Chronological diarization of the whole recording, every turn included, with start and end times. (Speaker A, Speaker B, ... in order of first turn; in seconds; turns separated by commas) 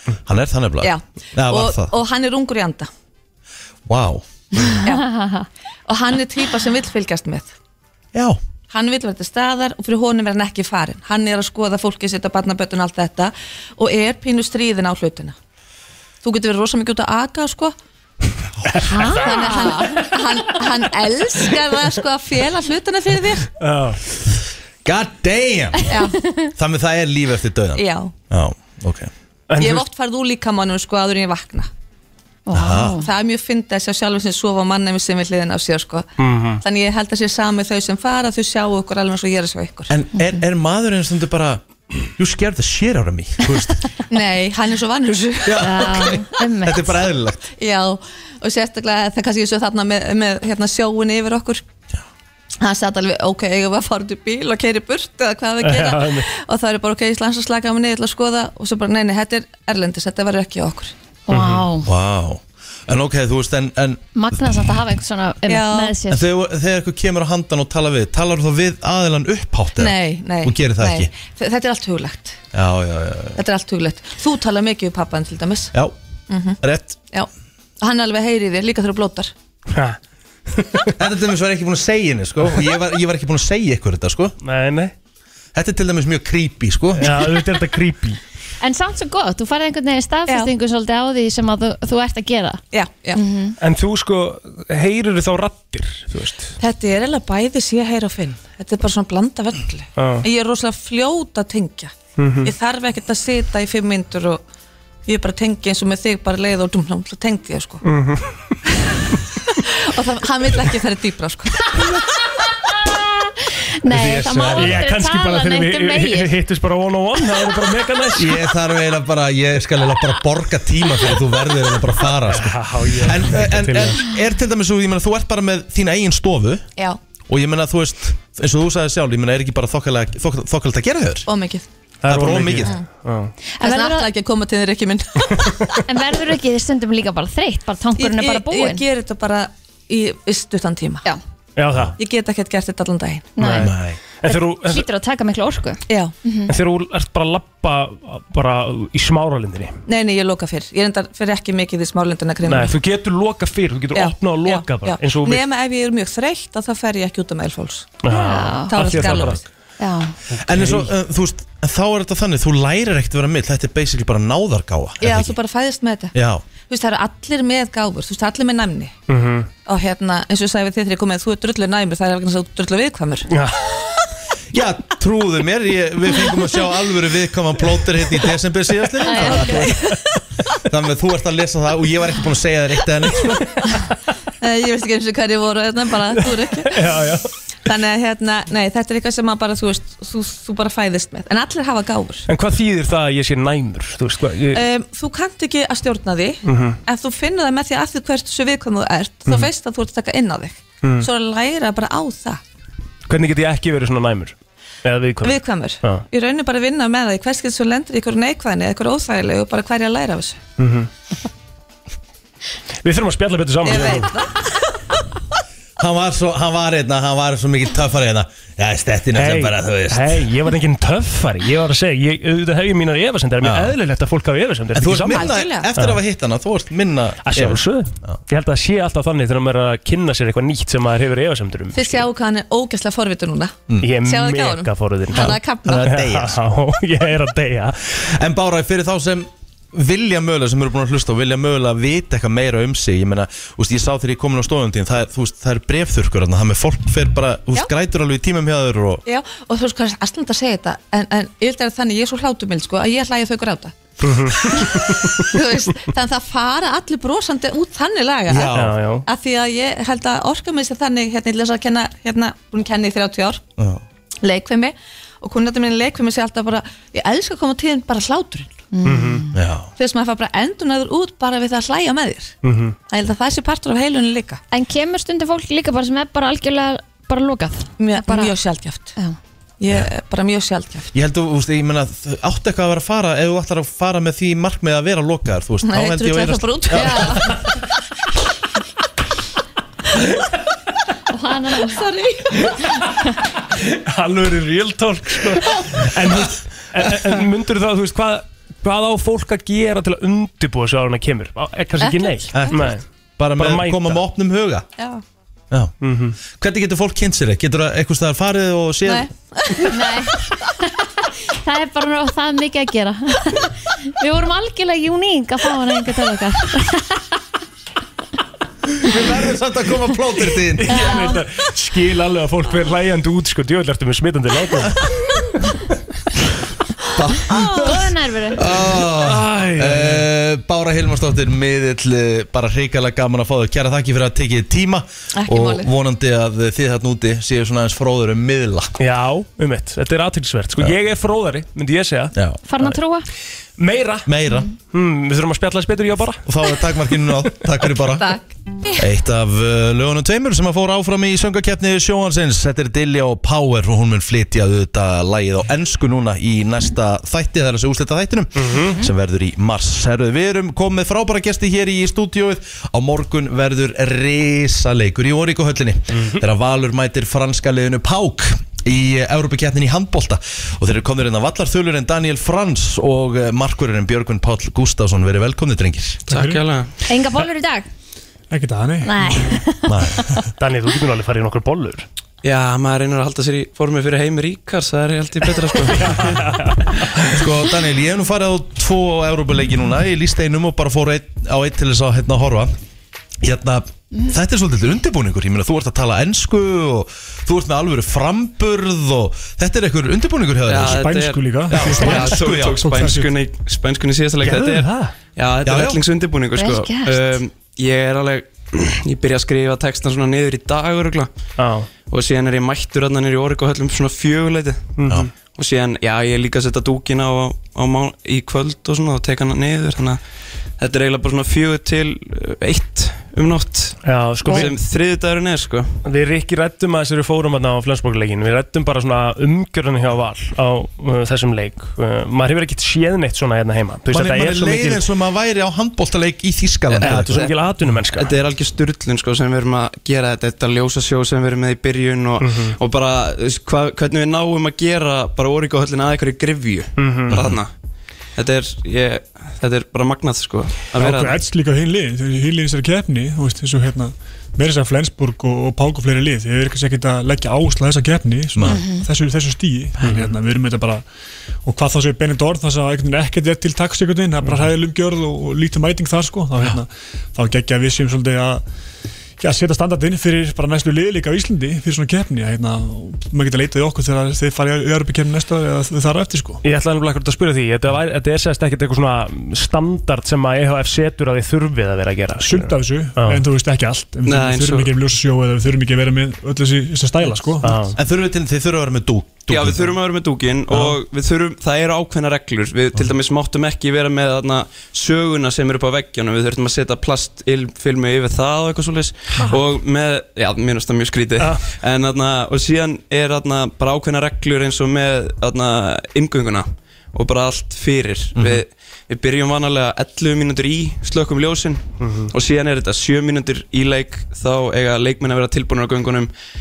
Speaker A: 0.2-1.9, Speaker B: 0.8-2.9, Speaker A: 3.9-4.8, Speaker C: 4.8-5.5, Speaker B: 5.9-7.5, Speaker A: 8.1-8.4, Speaker B: 8.7-15.3, Speaker B: 16.2-17.7, Speaker C: 18.8-20.1, Speaker B: 19.1-23.5, Speaker D: 23.6-24.0, Speaker A: 24.8-25.9, Speaker B: 25.9-26.2, Speaker C: 26.0-26.5, Speaker A: 26.5-29.1, Speaker B: 27.8-28.1, Speaker D: 29.5-29.8, Speaker B: 29.6-31.7, Speaker C: 32.5-33.1, Speaker A: 32.5-33.0, Speaker B: 33.0-39.9, Speaker D: 36.2-36.6, Speaker A: 39.9-43.9, Speaker C: 40.1-40.4, Speaker B: 44.1-45.7, Speaker A: 45.4-47.5, Speaker C: 45.5-47.0, Speaker B: 47.5-51.6, Speaker B: 52.6-60.9, Speaker D: 55.6-56.3, Speaker C: 61.3-61.9, Speaker D: 61.3-61.6, Speaker A: 61.8-64.0, Speaker C: 64.1-66.3, Speaker B: 65.5-65.9, Speaker A: 66.1-71.1, Speaker B: 69.8-72.4, Speaker A: 72.5-73.4, Speaker B: 73.3-75.7, Speaker B: 76.3-76.6, Speaker A: 76.6-77.0, Speaker B: 77.8-79.3, Speaker D: 79.7-80.0, Speaker D: 80.5-80.9, Speaker A: 81.0-84.3, Speaker D: 84.4-84.9, Speaker A: 85.5-87.5, Speaker D: 87.0-88.2, Speaker C: 88.6-92.6, Speaker B: 90.3-90.5, Speaker B: 92.7-93.2, Speaker C: 93.1-93.5, Speaker D: 93.6-96.5, Speaker B: 96.6-104.4, Speaker D: 100.0-100.2, Speaker D: 102.2-102.5, Speaker B: 105.0-107.8, Speaker D: 107.8-108.3, Speaker B: 109.6-111.7, Speaker C: 113.8-116.3, Speaker A: 113.9-114.9, Speaker D: 114.5-118.4, Speaker A: 118.2-126.7, Speaker D: 122.3-124.0, Speaker A: 127.3-131.3, Speaker B: 131.3-131.7, Speaker D: 132.0-133.3, Speaker A: 132.0-132.7, Speaker C: 133.6-134.1, Speaker B: 133.6-135.8, Speaker C: 135.9-138.8, Speaker B: 138.0-141.0, Speaker D: 141.6-141.9, Speaker B: 142.0-143.3, Speaker C: 143.4-143.7, Speaker D: 143.4-144.8, Speaker A: 143.6-144.0, Speaker C: 144.3-146.5, Speaker B: 145.9-146.1, Speaker D: 146.5-149.8, Speaker B: 149.9-152.7, Speaker D: 152.4-155.4, Speaker B: 153.9-158.0, Speaker D: 158.0-159.4, Speaker C: 158.1-158.8, Speaker B: 158.7-159.4, Speaker A: 159.0-159.4, Speaker C: 159.8-160.1, Speaker D: 160.3-160.9, Speaker A: 160.4-165.3, Speaker B: 165.0-168.9, Speaker A: 166.1-166.4, Speaker D: 169.1-169.5, Speaker B: 169.7-173.3, Speaker D: 173.3-173.6, Speaker A: 174.5-179.7, Speaker B: 179.1-180.0, Speaker C: 179.2-179.4, Speaker D: 179.2-179.8, Speaker A: 180.7-183.4, Speaker B: 184.4-186.8, Speaker D: 186.7-187.3, Speaker B: 187.7-192.2, Speaker D: 192.3-194.6, Speaker B: 194.5-202.4, Speaker D: 196.4-196.8, Speaker D: 200.8-201.1, Speaker D: 203.1-206.0, Speaker B: 205.2-210.4, Speaker D: 210.6-210.9, Speaker D: 212.8-214.1, Speaker B: 213.6-214.5, Speaker A: 215.8-220.3, Speaker D: 219.1-226.0, Speaker A: 223.4-223.8, Speaker A: 224.7-228.2, Speaker B: 225.1-225.7, Speaker D: 227.2-232.0, Speaker B: 231.7-235.9, Speaker D: 233.8-237.8, Speaker A: 235.1-236.4, Speaker A: 237.9-249.0, Speaker B: 249.1-253.8, Speaker D: 254.0-254.9, Speaker B: 254.6-263.4, Speaker A: 258.3-258.8, Speaker D: 258.5-259.0, Speaker A: 263.6-263.8, Speaker B: 264.2-268.5, Speaker C: 268.7-269.3, Speaker D: 268.8-269.2, Speaker A: 269.3-269.7, Speaker B: 269.8-272.3, Speaker D: 272.4-272.8, Speaker B: 272.9-274.4, Speaker C: 274.5-278.3, Speaker B: 277.8-278.9, Speaker B: 279.6-280.9, Speaker A: 280.9-287.3, Speaker B: 285.6-287.3, Speaker C: 286.7-287.2, Speaker C: 291.1-291.8, Speaker B: 291.6-292.2, Speaker D: 293.6-302.8, Speaker B: 301.8-302.5, Speaker A: 302.3-304.7, Speaker D: 303.3-304.0, Speaker D: 305.8-306.2, Speaker A: 306.3-309.1, Speaker B: 308.8-309.8, Speaker C: 309.7-310.2, Speaker C: 311.3-317.0, Speaker A: 318.8-320.8, Speaker D: 320.6-324.8, Speaker C: 320.7-321.2, Speaker A: 326.9-338.7, Speaker C: 327.3-328.4, Speaker D: 328.8-330.1, Speaker B: 335.1-335.7, Speaker D: 338.8-342.7, Speaker C: 342.5-343.1, Speaker D: 343.6-344.1, Speaker A: 344.1-344.5, Speaker D: 344.7-346.2, Speaker A: 346.2-348.1, Speaker B: 348.0-348.8, Speaker A: 348.7-376.0, Speaker D: 358.4-358.8, Speaker D: 365.9-366.2, Speaker E: 376.1-376.7, Speaker F: 376.1-376.4, Speaker C: 376.9-377.7, Speaker F: 378.3-379.1, Speaker C: 378.8-380.0, Speaker A: 379.6-380.0, Speaker D: 380.4-381.9, Speaker E: 382.2-386.1, Speaker D: 385.7-386.9, Speaker A: 387.1-392.5, Speaker A: 393.2-400.9, Speaker E: 400.4-411.1, Speaker F: 400.6-403.1, Speaker A: 401.5-402.7, Speaker D: 404.2-404.9, Speaker A: 405.4-405.8, Speaker C: 406.3-407.2, Speaker D: 411.4-411.7, Speaker E: 411.8-414.7, Speaker D: 414.8-415.1, Speaker E: 415.2-420.0, Speaker E: 420.6-425.8, Speaker D: 423.8-424.6, Speaker D: 425.8-434.8, Speaker A: 433.9-437.2, Speaker E: 436.7-437.4, Speaker D: 436.8-438.1, Speaker E: 437.9-447.5, Speaker D: 442.2-442.6, Speaker D: 446.8-447.2, Speaker A: 447.1-447.4, Speaker E: 448.1-451.2, Speaker F: 450.8-460.8, Speaker A: 458.3-458.6, Speaker C: 458.4-458.9, Speaker D: 459.8-460.1, Speaker F: 461.4-468.4, Speaker F: 469.2-476.4, Speaker D: 476.4-483.2, Speaker F: 482.2-487.6, Speaker E: 484.0-484.7, Speaker D: 487.4-487.8, Speaker A: 487.7-489.7, Speaker E: 489.3-516.1, Speaker D: 501.2-501.4, Speaker A: 508.1-508.4, Speaker D: 511.8-512.1